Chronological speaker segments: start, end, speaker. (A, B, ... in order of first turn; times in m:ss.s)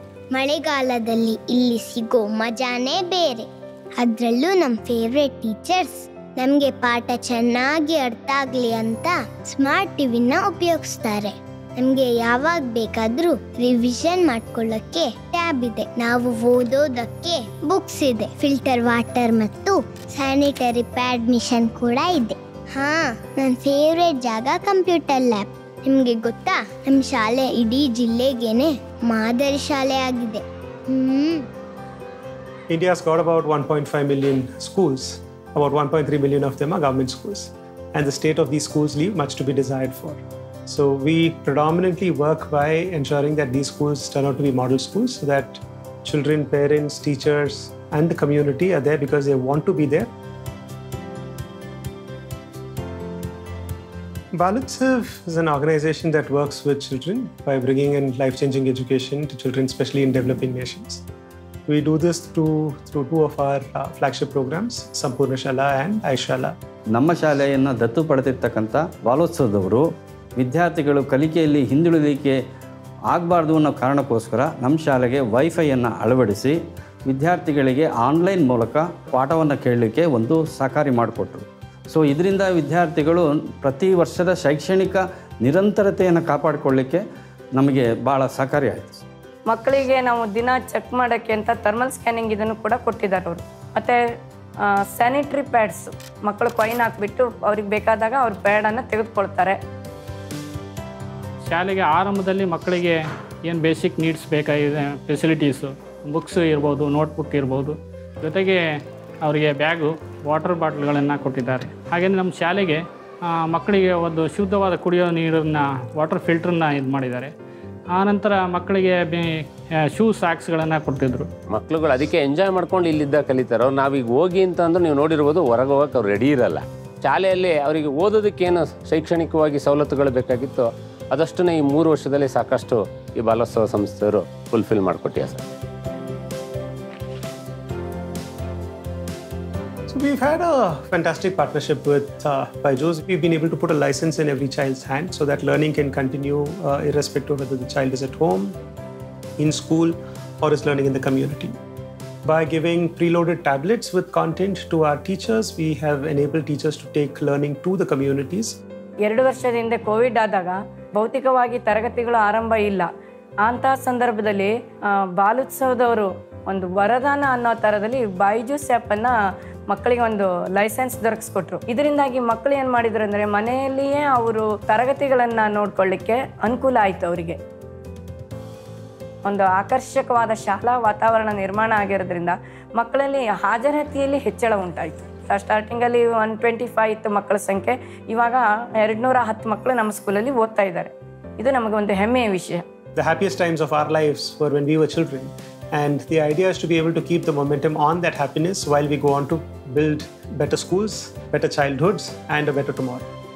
0:00.3-0:03.5 A
0:04.0-0:31.5 A
0:32.7-0:50.1 B
0:54.3-1:01.0 B
1:01.7-1:06.5 B
1:07.0-1:09.8 C
1:10.4-1:12.4 C
1:13.1-1:27.0 C
1:27.6-1:29.0 C
1:29.5-1:34.0 D
1:34.9-1:39.6 D
1:41.5-1:48.6 E
1:49.2-1:52.8 E
1:53.4-1:57.3 E
1:57.9-2:01.3 E
2:01.5-2:15.4 F
2:19.9-2:28.6 B
2:29.4-2:31.6 B
2:32.2-2:38.6 B
2:39.1-2:42.9 D
2:43.4-2:44.5 D
2:45.2-2:49.1 D
2:49.7-2:57.4 D
2:59.2-3:12.6 D
3:13.0-3:23.1 B